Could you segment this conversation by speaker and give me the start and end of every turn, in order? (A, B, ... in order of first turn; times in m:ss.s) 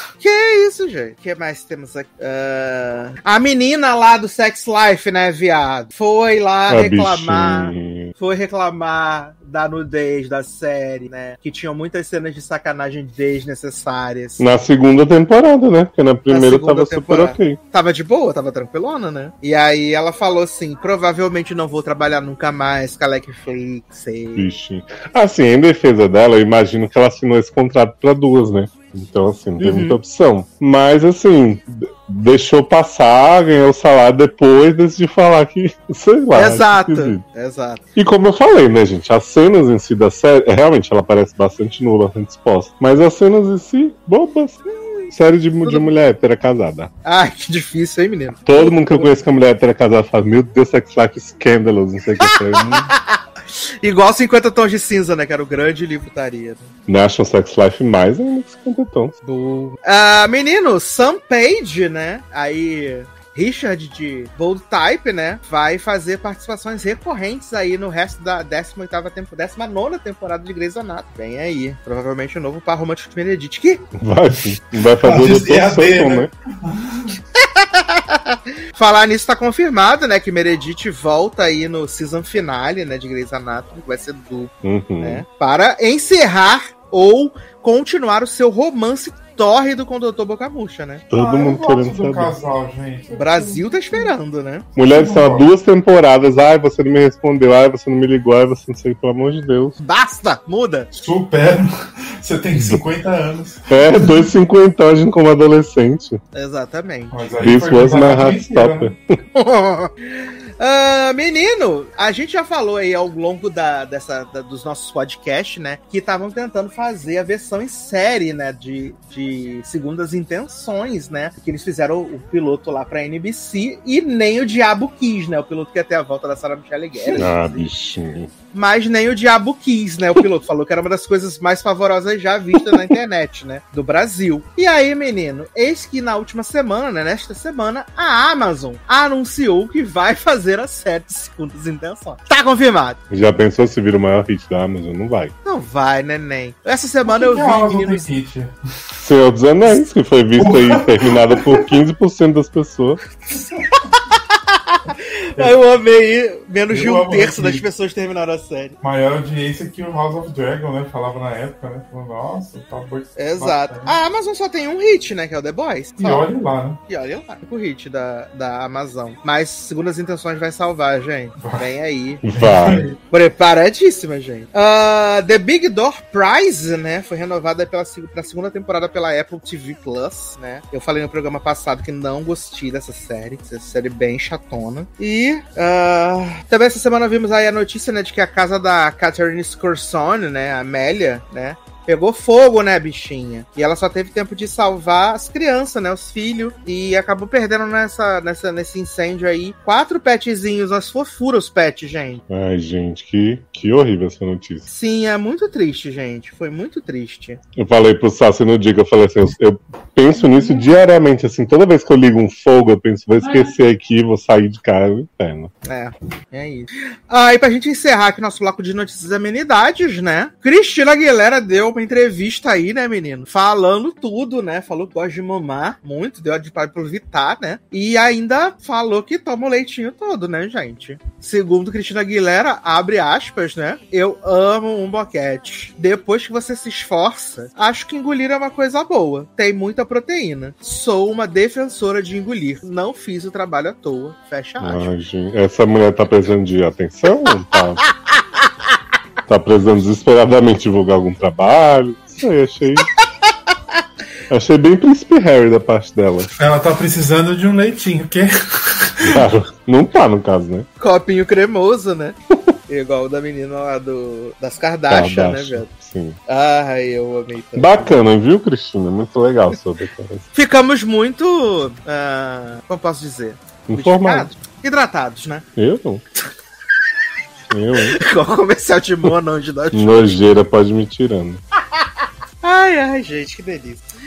0:00.2-0:14.4 A
0:06.7-0:08.1 B
0:14.4-0:17.6 B
0:16.3-0:24.5 A
0:24.4-0:37.2 B
0:29.6-0:30.0 A
0:36.3-0:37.8 A
0:38.0-0:46.9 B
0:45.6-0:45.9 A
0:47.0-0:49.1 A
0:48.4-0:52.9 B
0:52.2-0:56.7 A
0:56.9-0:59.1 B
0:59.2-1:13.8 A
1:14.0-1:16.3 B
1:15.0-1:17.2 C
1:17.4-1:31.0 A
1:24.6-1:25.2 B
1:31.1-1:32.3 B
1:31.1-1:34.1 C
1:33.1-1:34.7 A
1:34.8-1:39.8 B
1:34.9-1:35.5 C
1:39.8-1:40.9 A
1:40.9-1:44.3 C
1:43.7-1:46.2 B
1:46.3-1:47.3 A
1:47.1-1:48.9 C
1:47.4-1:49.2 B
1:49.3-2:07.7 A
2:07.1-2:08.3 B
2:08.5-2:23.0 A
2:23.1-2:25.3 B
2:25.4-2:28.1 A
2:27.0-2:28.5 C
2:29.0-2:33.0 B
2:30.4-2:31.7 C
2:33.6-2:38.8 A
2:36.7-2:37.6 C
2:38.8-2:44.0 C
2:43.2-2:46.2 A
2:46.0-2:46.8 C
2:46.9-2:52.2 A
2:51.4-2:51.6 C
2:52.2-2:52.8 B
2:52.3-2:52.9 C
2:53.1-3:22.2 A
3:22.3-3:24.7 B
3:24.7-3:27.4 A
3:27.6-3:35.5 B
3:35.6-4:04.9 A
4:04.6-4:07.9 B
4:07.9-4:08.2 A
4:09.3-4:12.9 B
4:14.3-4:16.3 B
4:16.3-4:19.3 C
4:19.0-4:20.7 B
4:20.8-4:22.2 A
4:22.7-4:25.7 A
4:24.9-4:26.2 B
4:26.3-4:27.7 A
4:27.6-4:30.2 B
4:30.3-4:35.4 A
4:33.7-4:34.3 B
4:35.6-4:36.0 B
4:37.5-4:38.0 B
4:37.8-4:40.2 A
4:39.7-4:41.4 B
4:42.4-4:43.9 A